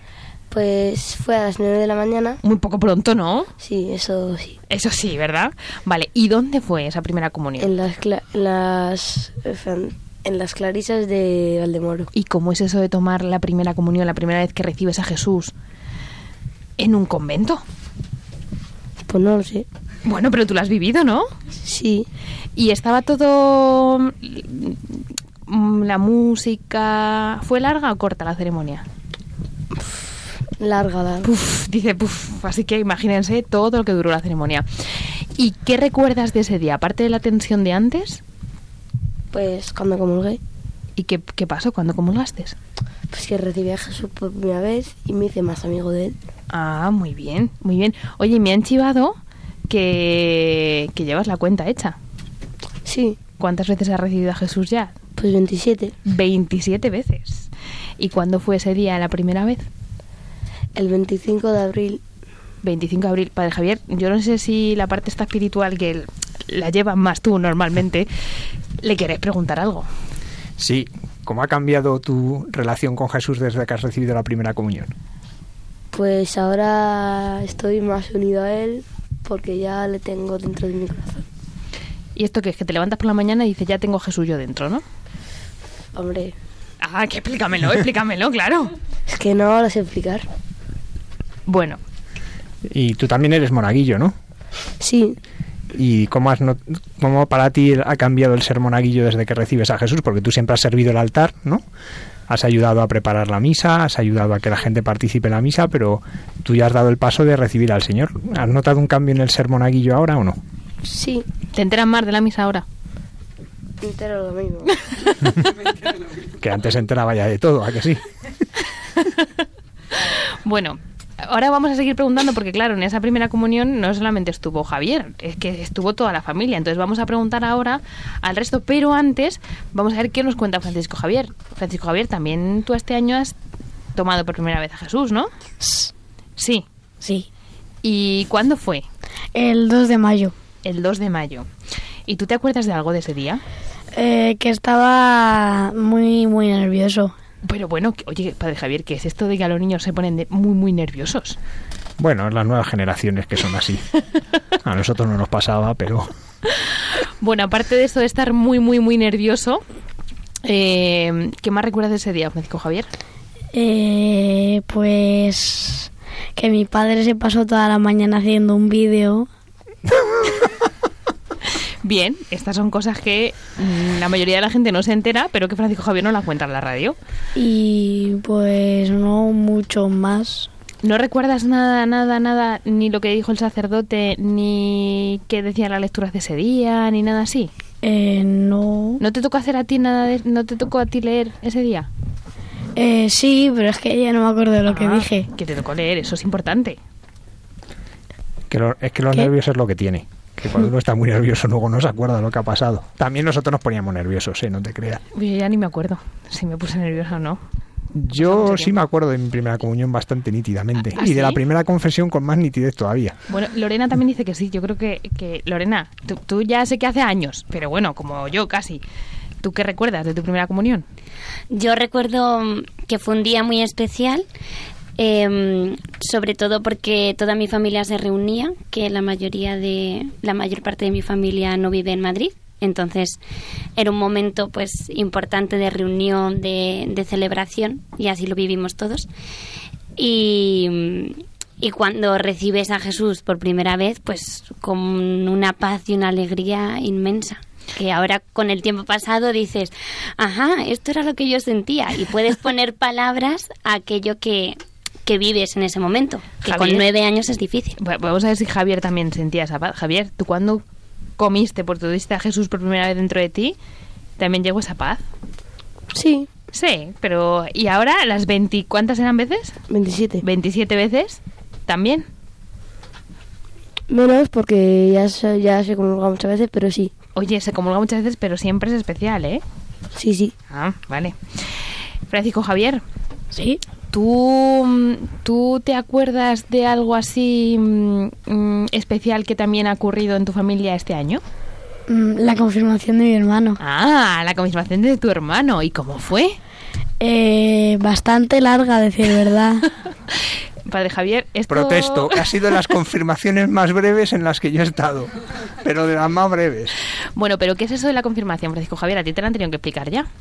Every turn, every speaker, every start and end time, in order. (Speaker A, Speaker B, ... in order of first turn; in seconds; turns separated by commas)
Speaker A: 0.5-2.4, Speaker B: 2.4-3.5, Speaker A: 3.6-4.5, Speaker B: 4.7-7.7, Speaker A: 7.6-12.1, Speaker B: 12.1-15.5, Speaker B: 16.8-17.6, Speaker A: 19.1-19.7, Speaker B: 20.1-21.3, Speaker A: 21.6-22.1, Speaker B: 22.6-28.9, Speaker A: 30.6-31.3, Speaker B: 31.2-38.2, Speaker A: 39.3-40.4, Speaker B: 41.0-42.6, Speaker A: 43.1-46.2, Speaker B: 46.5-49.2, Speaker B: 49.7-52.0, Speaker A: 52.9-53.2, Speaker B: 53.4-54.9, Speaker A: 55.2-55.9, Speaker B: 56.1-57.5, Speaker B: 58.0-59.7, Speaker A: 60.8-62.0, Speaker B: 62.6-68.1, Speaker B: 68.8-69.9, Speaker C: 70.6-74.9, Speaker A: 75.9-81.2, Speaker B: 82.2-84.8, Speaker A: 86.0-86.3, Speaker B: 86.8-88.7, Speaker A: 89.1-90.3, Speaker B: 91.5-91.8, Speaker C: 92.7-94.2, Speaker A: 94.8-95.2, Speaker C: 95.7-101.6, Speaker C: 102.3-110.4, Speaker A: 110.9-111.2, Speaker B: 111.5-112.7, Speaker A: 113.8-114.7, Speaker C: 116.4-118.0, Speaker B: 119.0-119.3, Speaker B: 120.0-133.3, Speaker B: 134.0-135.3, Speaker D: 135.6-135.9, Speaker B: 136.4-136.7, Speaker D: 137.0-137.3, Speaker B: 137.8-138.8, Speaker D: 139.3-140.3, Speaker B: 140.6-141.5, Speaker B: 142.1-143.4, Speaker D: 143.9-147.1, Speaker B: 147.4-151.4, Speaker C: 152.0-153.9, Speaker C: 154.6-156.1, Speaker B: 157.0-159.6, Speaker B: 160.4-162.9, Speaker D: 163.5-169.3, Speaker B: 171.8-177.0, Speaker D: 177.4-180.5, Speaker B: 180.8-187.5, Speaker D: 187.8-189.0, Speaker B: 189.0-191.9, Speaker D: 192.8-195.3, Speaker B: 194.7-196.8, Speaker C: 198.5-205.0, Speaker B: 205.1-207.4, Speaker C: 207.9-213.2, Speaker B: 208.2-208.7, Speaker B: 210.9-211.4, Speaker B: 213.3-218.8, Speaker B: 219.4-220.9, Speaker E: 221.5-224.3, Speaker E: 225.0-233.2, Speaker E: 233.8-239.1, Speaker E: 240.0-257.8, Speaker B: 256.4-256.8, Speaker B: 257.8-260.6, Speaker B: 261.2-263.6, Speaker B: 264.2-265.0, Speaker A: 265.9-266.3, Speaker B: 266.5-269.6, Speaker A: 269.7-270.2, Speaker B: 270.2-272.1, Speaker A: 273.9-276.9, Speaker B: 277.2-279.4, Speaker A: 280.0-280.3, Speaker B: 280.5-282.8, Speaker D: 283.3-283.6, Speaker B: 283.9-291.2, Speaker D: 291.9-293.6, Speaker B: 293.6-296.4, Speaker D: 297.0-299.7, Speaker B: 300.7-302.5, Speaker C: 301.5-306.8, Speaker B: 307.2-310.1